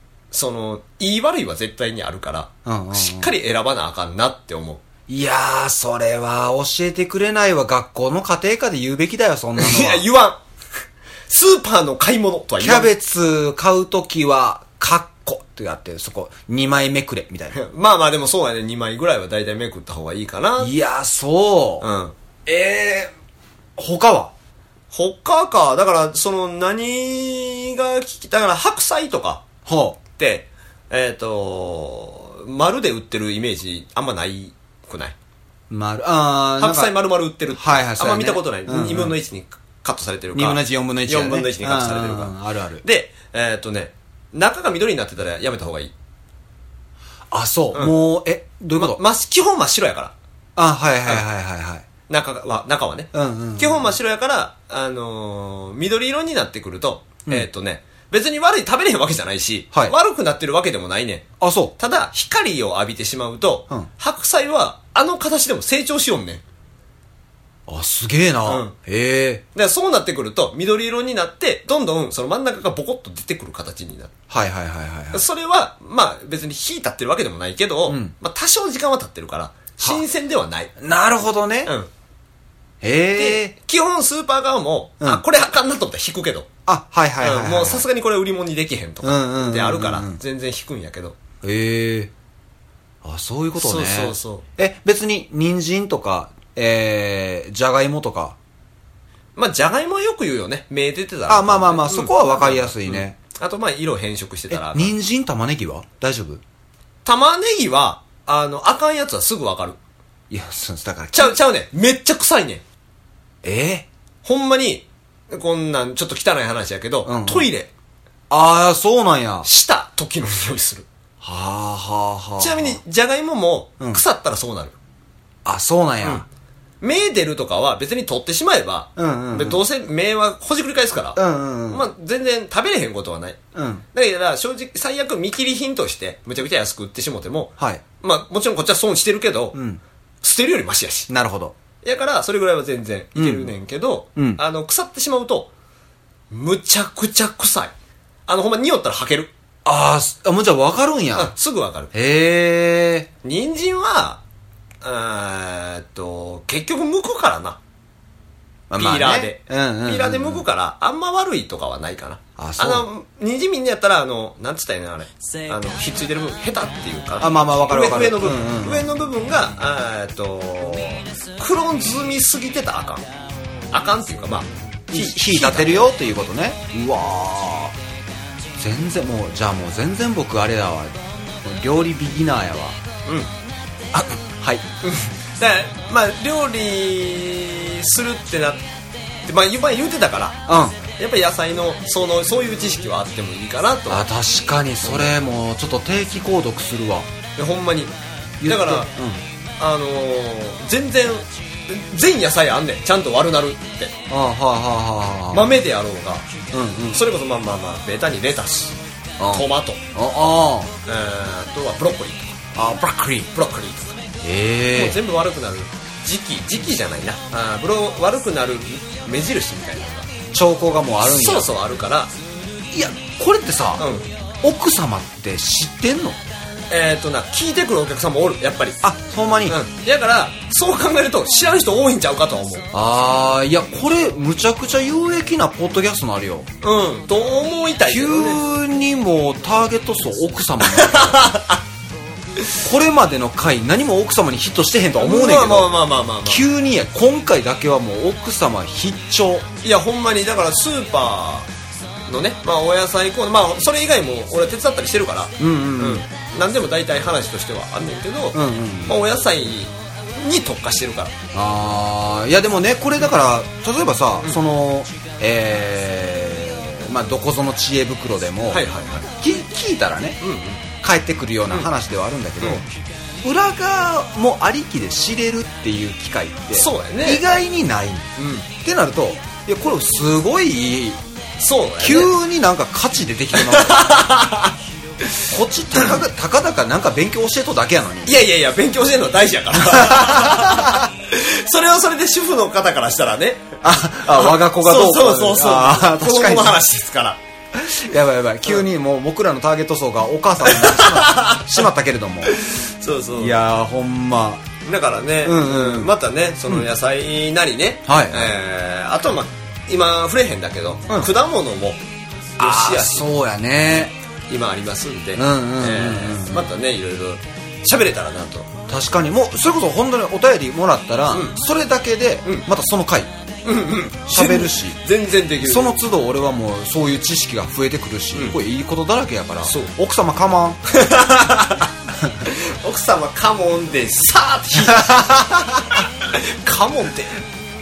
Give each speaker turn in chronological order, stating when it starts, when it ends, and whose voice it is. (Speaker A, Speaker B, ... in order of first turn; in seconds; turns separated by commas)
Speaker A: 0.3-4.8, Speaker B: 2.6-3.3, Speaker B: 5.1-10.0, Speaker A: 9.6-10.4, Speaker A: 11.3-12.9, Speaker B: 12.6-17.6, Speaker A: 17.5-20.7, Speaker B: 20.6-21.9, Speaker A: 21.8-22.1, Speaker B: 22.4-23.1, Speaker B: 23.8-24.3, Speaker A: 24.9-29.4, Speaker B: 29.6-30.0, Speaker A: 30.1-35.1, Speaker B: 35.7-37.0, Speaker A: 36.6-45.9, Speaker B: 37.5-39.2, Speaker B: 40.3-42.8, Speaker B: 47.3-49.0, Speaker A: 48.8-50.1, Speaker B: 50.5-51.8, Speaker A: 52.1-61.2, Speaker B: 53.1-54.0, Speaker B: 61.4-61.7, Speaker A: 61.8-66.4, Speaker B: 67.7-69.4, Speaker A: 68.4-68.7, Speaker A: 69.5-74.1, Speaker B: 74.3-75.2, Speaker A: 75.1-80.7, Speaker B: 77.9-78.1, Speaker B: 80.8-81.7, Speaker A: 81.6-81.9, Speaker B: 82.8-83.5, Speaker A: 83.2-86.5, Speaker B: 86.7-87.9, Speaker A: 87.2-91.2, Speaker B: 89.0-90.2, Speaker B: 91.4-92.1, Speaker B: 93.0-98.3, Speaker A: 93.5-94.4, Speaker A: 99.3-104.9, Speaker B: 101.3-103.2, Speaker B: 104.5-106.4, Speaker A: 107.0-109.8, Speaker B: 110.3-111.4, Speaker A: 111.1-112.6, Speaker B: 113.4-113.8, Speaker A: 114.2-117.7, Speaker B: 117.0-117.5, Speaker B: 118.3-119.5, Speaker A: 119.4-120.9, Speaker B: 121.2-122.8, Speaker A: 122.4-124.8, Speaker B: 125.4-126.2, Speaker A: 126.8-133.4, Speaker B: 128.9-129.6, Speaker B: 131.2-131.8, Speaker B: 133.5-133.8, Speaker A: 133.9-139.6, Speaker B: 139.5-139.8, Speaker A: 140.2-141.1, Speaker B: 141.1-141.5, Speaker A: 141.8-145.5, Speaker B: 143.2-143.5, Speaker B: 144.2-144.4, Speaker A: 146.3-147.7, Speaker A: 148.3-149.3, Speaker B: 149.6-151.3, Speaker A: 151.1-151.9, Speaker B: 151.9-153.1, Speaker A: 153.2-154.2, Speaker A: 154.8-157.6, Speaker B: 158.7-160.4, Speaker A: 158.8-173.1, Speaker B: 162.4-162.9, Speaker B: 167.2-168.9, Speaker A: 173.7-175.9, Speaker B: 174.9-177.7, Speaker B: 178.6-182.8, Speaker B: 183.9-184.6, Speaker A: 184.8-188.6, Speaker A: 189.2-194.1, Speaker B: 190.5-190.8, Speaker B: 193.9-197.1, Speaker A: 194.8-195.1, Speaker A: 197.3-198.9, Speaker B: 198.4-199.2, Speaker A: 199.6-203.9, Speaker B: 204.1-205.5, Speaker A: 205.3-206.2, Speaker B: 206.5-207.0, Speaker A: 206.9-208.8, Speaker B: 209.2-210.7, Speaker A: 209.3-209.8, Speaker A: 210.8-212.4, Speaker B: 212.6-213.3, Speaker A: 213.2-214.0, Speaker B: 214.2-215.0, Speaker A: 214.7-220.1, Speaker B: 220.3-221.5, Speaker A: 221.0-222.1, Speaker B: 222.7-223.9, Speaker A: 223.8-224.1, Speaker B: 224.4-226.2, Speaker A: 226.7-228.8, Speaker B: 228.8-229.6, Speaker A: 229.4-232.7, Speaker B: 232.7-236.5, Speaker A: 236.6-238.4, Speaker B: 237.9-241.3, Speaker A: 240.6-241.6, Speaker B: 242.6-249.4, Speaker A: 245.0-246.4, Speaker A: 249.6-251.5, Speaker A: 252.1-261.1, Speaker B: 255.4-256.0, Speaker B: 258.3-259.0, Speaker B: 261.3-268.6, Speaker A: 268.5-269.1, Speaker B: 269.2-270.2, Speaker A: 270.2-270.6, Speaker B: 270.8-272.7, Speaker B: 273.2-281.0, Speaker A: 276.5-277.2, Speaker A: 278.2-278.5, Speaker A: 281.4-282.1, Speaker B: 281.8-283.9, Speaker A: 283.3-284.5, Speaker B: 285.3-288.1, Speaker A: 285.7-286.0, Speaker A: 288.0-293.5, Speaker B: 289.5-290.9, Speaker B: 293.6-296.6, Speaker A: 294.1-297.2, Speaker B: 297.5-302.4, Speaker A: 300.4-301.6, Speaker A: 302.3-303.4, Speaker B: 303.2-304.4, Speaker A: 304.6-311.8, Speaker B: 305.2-305.9, Speaker B: 307.9-308.3, Speaker A: 312.4-313.1, Speaker B: 312.4-313.9, Speaker A: 314.3-318.5, Speaker B: 315.1-316.5, Speaker B: 318.7-323.1, Speaker A: 321.1-321.4, Speaker A: 323.4-325.8, Speaker B: 324.1-324.8, Speaker B: 325.4-330.6, Speaker A: 329.4-329.7, Speaker A: 330.7-331.7, Speaker A: 332.2-337.2, Speaker B: 334.5-335.7